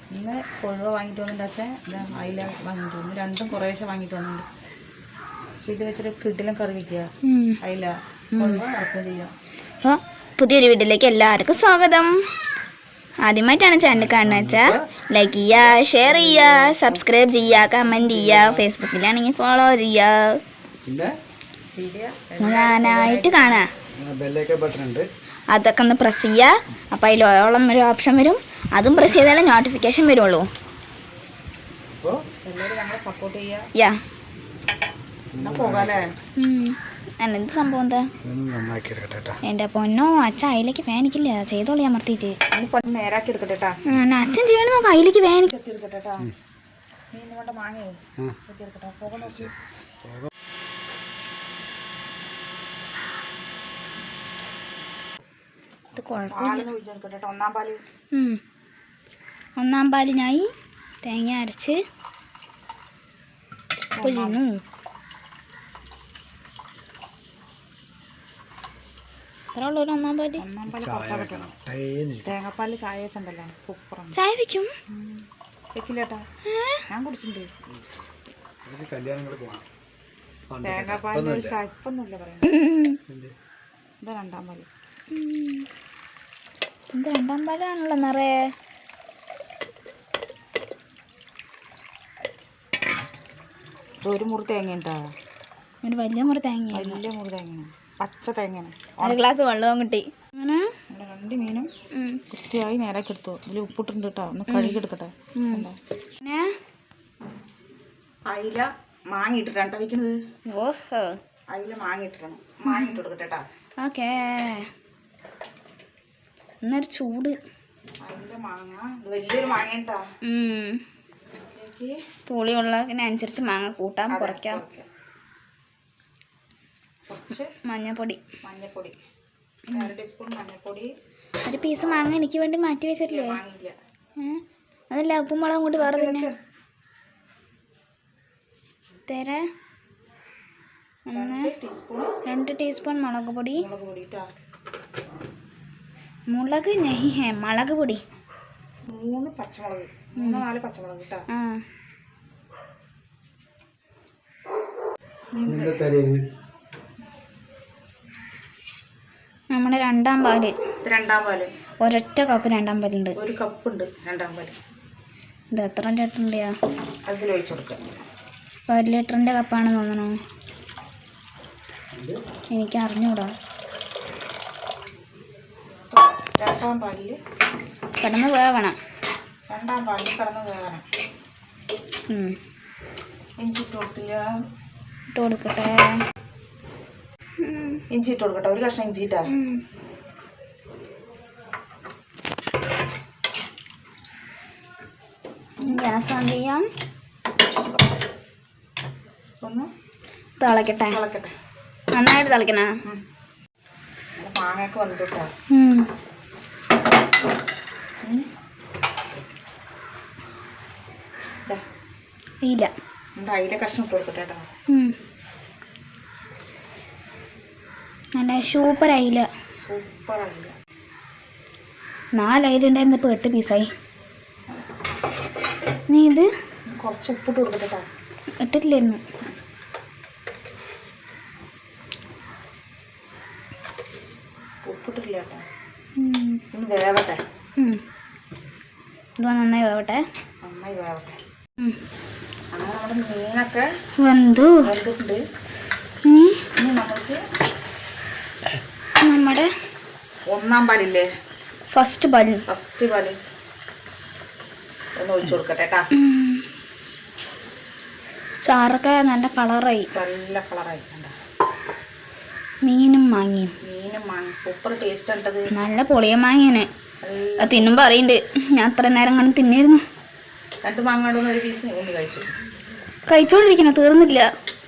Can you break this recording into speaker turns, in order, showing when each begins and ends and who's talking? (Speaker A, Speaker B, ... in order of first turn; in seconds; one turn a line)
Speaker A: 0.1-4.5
Speaker B: 5.5-5.8
Speaker A: 5.7-7.1
Speaker C: 7.2-7.6
Speaker A: 7.6-9.3
Speaker C: 8.3-8.6
Speaker C: 9.8-12.2
Speaker C: 13.2-20.4
Speaker B: 13.9-14.8
Speaker B: 15.7-17.0
Speaker B: 17.6-18.6
Speaker B: 20.8-21.1
Speaker A: 21.8-23.6
Speaker C: 22.4-23.7
Speaker B: 24.0-25.1
Speaker C: 25.5-30.5
Speaker B: 31.9-32.2
Speaker A: 32.5-33.7
Speaker B: 35.3-36.1
Speaker A: 35.4-36.1
Speaker C: 36.4-38.1
Speaker B: 38.2-39.4
Speaker C: 39.5-42.4
Speaker A: 42.5-43.8
Speaker C: 43.9-45.5
Speaker A: 45.5-46.3
Speaker A: 47.1-49.5
Speaker B: 49.2-49.5
Speaker B: 50.0-50.3
Speaker C: 56.0-56.7
Speaker A: 56.3-57.8
Speaker C: 58.1-58.4
Speaker C: 59.6-60.5
Speaker C: 61.0-61.8
Speaker A: 64.0-64.4
Speaker C: 64.0-64.6
Speaker C: 69.5-70.4
Speaker A: 70.4-71.5
Speaker B: 70.7-72.3
Speaker A: 72.2-74.2
Speaker C: 74.1-74.7
Speaker A: 74.9-76.2
Speaker C: 76.5-76.8
Speaker A: 76.9-77.5
Speaker B: 78.7-79.7
Speaker B: 80.5-81.6
Speaker A: 80.6-82.6
Speaker C: 82.5-83.0
Speaker B: 83.1-83.3
Speaker A: 84.0-84.7
Speaker C: 85.1-85.7
Speaker C: 86.9-88.4
Speaker A: 94.0-95.0
Speaker C: 95.8-97.0
Speaker A: 96.7-99.2
Speaker C: 99.0-100.7
Speaker A: 100.9-101.7
Speaker C: 101.9-102.2
Speaker A: 102.3-105.8
Speaker C: 104.5-104.8
Speaker C: 105.4-105.7
Speaker C: 106.2-106.5
Speaker A: 108.3-110.2
Speaker C: 110.5-111.2
Speaker A: 111.5-113.5
Speaker C: 112.7-113.0
Speaker C: 113.8-114.7
Speaker C: 116.6-117.4
Speaker A: 118.0-120.0
Speaker C: 120.3-120.8
Speaker A: 121.4-122.0
Speaker C: 122.3-124.6
Speaker A: 124.1-124.9
Speaker A: 127.1-127.5
Speaker C: 127.7-128.2
Speaker A: 128.4-129.0
Speaker A: 129.7-130.9
Speaker C: 131.4-133.4
Speaker A: 133.0-133.8
Speaker C: 134.2-136.3
Speaker A: 135.8-136.3
Speaker C: 139.1-139.4
Speaker C: 141.1-141.5
Speaker A: 141.1-142.1
Speaker C: 142.2-143.7
Speaker A: 143.6-144.2
Speaker C: 146.3-148.0
Speaker A: 148.9-151.3
Speaker C: 150.2-150.4
Speaker C: 151.3-151.6
Speaker A: 155.3-155.8
Speaker B: 155.5-156.2
Speaker C: 159.5-160.5
Speaker A: 160.8-161.5
Speaker C: 161.8-163.2
Speaker A: 163.2-164.6
Speaker C: 165.5-166.5
Speaker A: 167.1-167.8
Speaker C: 168.7-170.2
Speaker B: 171.9-172.2
Speaker C: 172.6-173.3
Speaker A: 175.9-177.2
Speaker C: 178.0-178.8
Speaker A: 179.5-180.9
Speaker C: 182.1-182.4
Speaker A: 183.4-184.3
Speaker C: 185.1-186.0
Speaker C: 187.4-187.8
Speaker A: 187.9-189.3
Speaker C: 189.3-189.6
Speaker C: 195.6-196.6
Speaker A: 199.4-199.7
Speaker C: 200.4-201.0
Speaker A: 200.8-201.3
Speaker C: 201.9-202.7
Speaker A: 204.2-205.3
Speaker C: 205.5-205.9
Speaker C: 212.4-212.7
Speaker A: 213.2-214.5
Speaker C: 214.7-214.9
Speaker C: 218.2-219.3
Speaker A: 219.6-220.5
Speaker C: 222.2-223.7
Speaker C: 225.9-226.3
Speaker A: 226.8-227.9
Speaker C: 228.4-229.0
Speaker A: 234.7-235.4
Speaker C: 236.0-236.4
Speaker A: 236.5-237.2
Speaker C: 239.2-240.0
Speaker A: 240.4-241.2
Speaker A: 242.5-243.7
Speaker C: 244.0-244.6
Speaker A: 244.6-245.2
Speaker C: 246.1-246.4
Speaker A: 246.6-247.2
Speaker C: 249.0-249.5
Speaker A: 250.3-251.1
Speaker C: 251.7-252.4
Speaker A: 252.5-253.2
Speaker A: 255.0-255.9
Speaker C: 255.9-256.4
Speaker C: 258.4-259.9
Speaker A: 259.9-261.1
Speaker C: 262.6-263.5
Speaker A: 263.6-265.5
Speaker C: 265.5-266.7
Speaker A: 267.0-267.8
Speaker C: 267.4-269.8
Speaker A: 270.6-272.3
Speaker C: 273.1-274.3